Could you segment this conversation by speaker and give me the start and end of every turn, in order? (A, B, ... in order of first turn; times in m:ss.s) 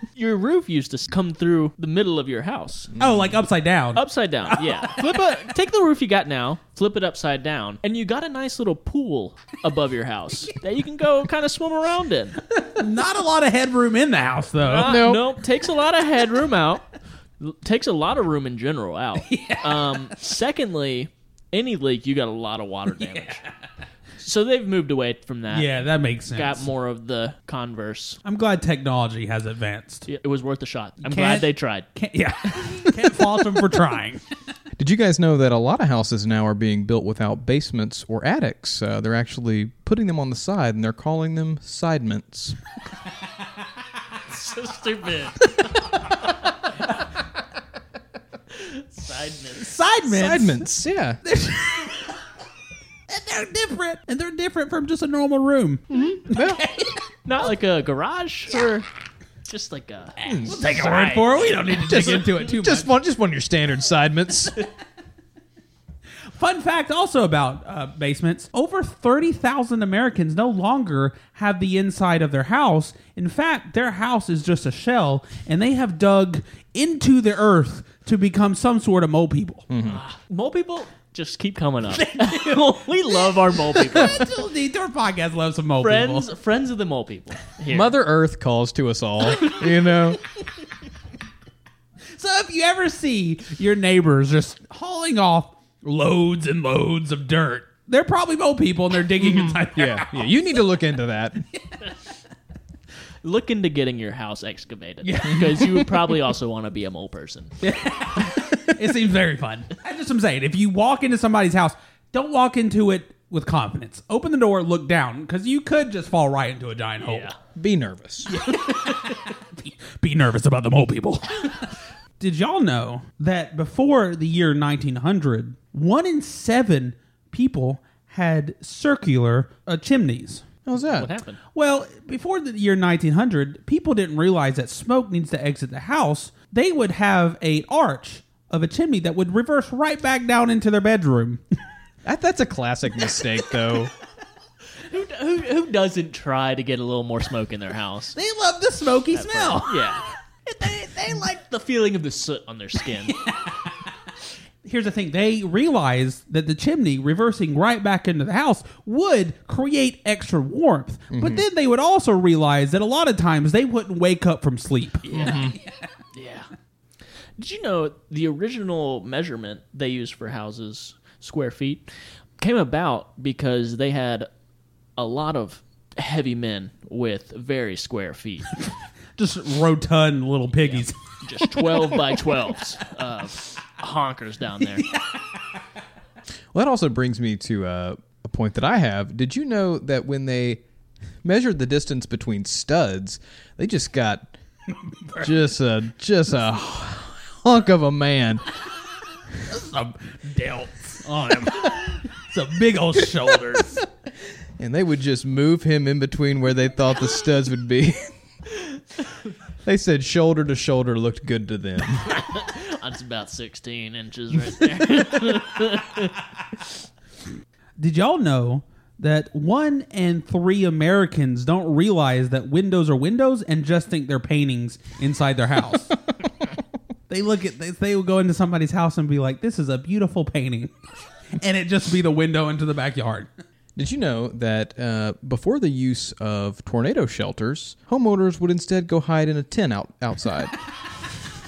0:00.2-0:02.9 A
0:03.0-0:03.3 B
0:03.0-0:05.4 C
0:03.9-0:12.4 A
0:12.6-0:15.0 C
0:14.6-0:16.8 A
0:14.8-0:15.3 B
0:17.4-0:23.4 A
0:19.2-0:20.1 C
0:23.0-0:23.5 C
0:24.2-0:25.8 A
0:25.5-0:26.6 C
0:26.3-0:28.2 A
0:28.2-0:30.1 C
0:30.1-0:31.9 A
0:31.0-0:34.2 C
0:34.8-0:42.6 B
0:44.3-0:46.0 A
0:48.5-0:49.8 A
0:49.6-0:50.6 C
0:50.1-0:51.2 B
0:51.2-0:52.2 C
0:53.1-0:57.0 C
0:55.9-0:56.6 B
0:57.2-0:58.9 A
0:59.4-1:02.3 A
1:00.2-1:00.6 B
1:00.5-1:02.9 C
1:01.8-1:04.6 B
1:06.3-1:19.7 C
1:19.7-1:20.0 B
1:19.8-1:24.3 A
1:21.9-1:26.3 C
1:25.8-1:27.9 A
1:27.7-1:30.2 B
1:32.2-1:40.3 C
1:39.2-1:41.4 B
1:43.2-1:47.5 A
1:45.0-1:45.9 C
1:47.6-1:57.3 C
1:57.0-1:57.3 A
1:57.6-1:58.4 B
1:58.3-2:10.4 C
1:58.9-1:59.1 A
2:10.6-2:11.1 B
2:10.8-2:11.4 A
2:11.5-2:21.4 C
2:22.0-2:23.9 B
2:24.9-2:28.2 A
2:28.2-2:31.3 C
2:29.1-2:33.2 A
2:33.1-2:33.9 C
2:34.6-2:45.4 C
2:41.1-2:41.4 B
2:45.1-2:45.4 A
2:45.2-2:45.6 B
2:46.1-2:46.5 A
2:47.4-2:54.3 A
2:55.0-2:58.5 A
2:59.2-3:01.0 C
3:00.5-3:04.9 A
3:01.6-3:02.1 C
3:04.6-3:05.2 C
3:06.5-3:10.6 B
3:11.2-3:14.3 B
3:15.2-3:18.4 B
3:19.4-3:23.8 C
3:24.6-3:28.1 B
3:29.6-3:32.1 B
3:32.1-3:36.1 A
3:37.8-3:45.9 C
3:47.1-3:50.7 C
3:51.4-3:53.3 C
3:53.8-4:00.5 B